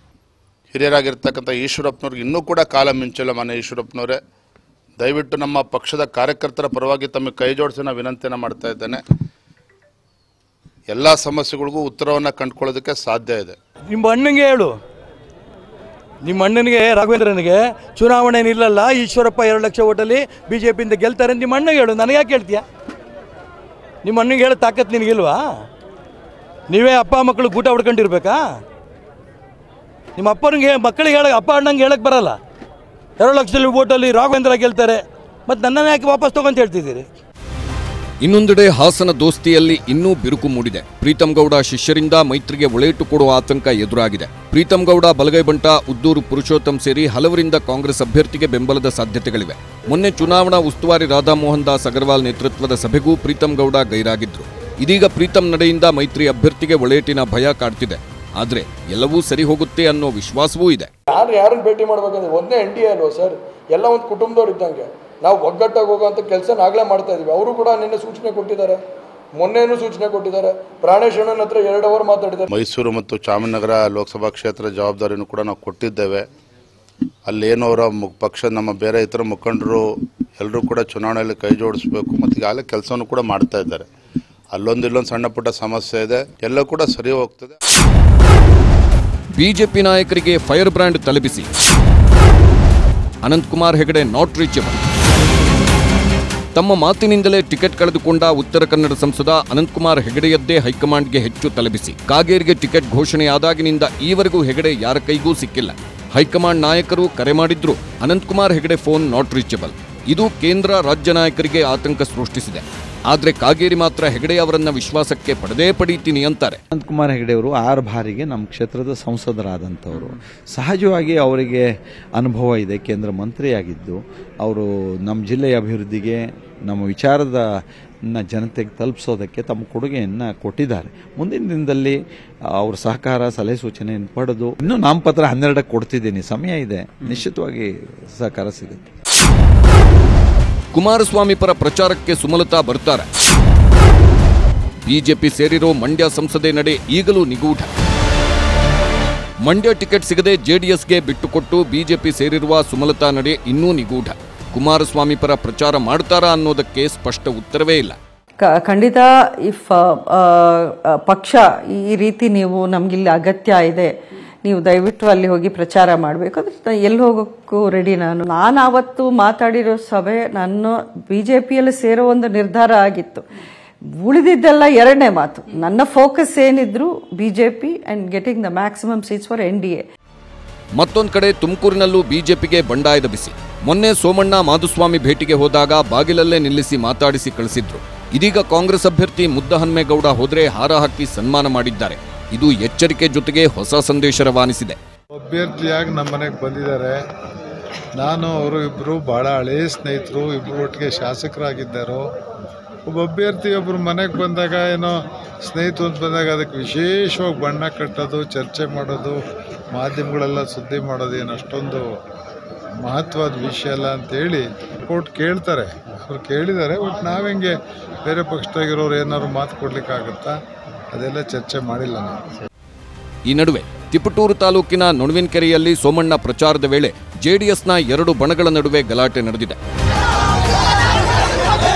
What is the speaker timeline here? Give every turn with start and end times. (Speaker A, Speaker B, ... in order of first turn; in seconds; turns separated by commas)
Speaker A: 0.7-4.2, Speaker A: 5.0-9.0, Speaker A: 10.9-13.6, Speaker B: 13.9-14.8, Speaker B: 16.2-22.6, Speaker B: 24.0-25.5, Speaker B: 26.7-28.5, Speaker B: 30.2-32.4, Speaker B: 33.2-37.1, Speaker C: 38.2-60.9, Speaker D: 61.1-68.8, Speaker D: 69.4-72.5, Speaker A: 72.5-76.3, Speaker A: 77.3-79.8, Speaker A: 80.4-83.9, Speaker A: 84.5-87.6, Speaker C: 89.3-91.5, Speaker C: 93.2-94.8, Speaker C: 96.5-116.6, Speaker E: 116.7-121.7, Speaker E: 122.2-127.4, Speaker E: 128.1-132.0, Speaker E: 132.5-138.8, Speaker C: 140.7-143.1, Speaker C: 144.8-147.7, Speaker C: 149.4-158.0, Speaker F: 158.4-163.9, Speaker F: 164.4-173.2, Speaker F: 174.0-179.8, Speaker C: 180.8-194.8, Speaker G: 195.2-197.0, Speaker G: 198.0-202.0, Speaker G: 202.9-209.2, Speaker G: 209.8-211.9, Speaker G: 212.8-217.5, Speaker G: 218.1-220.4, Speaker G: 220.9-222.2, Speaker C: 223.3-229.6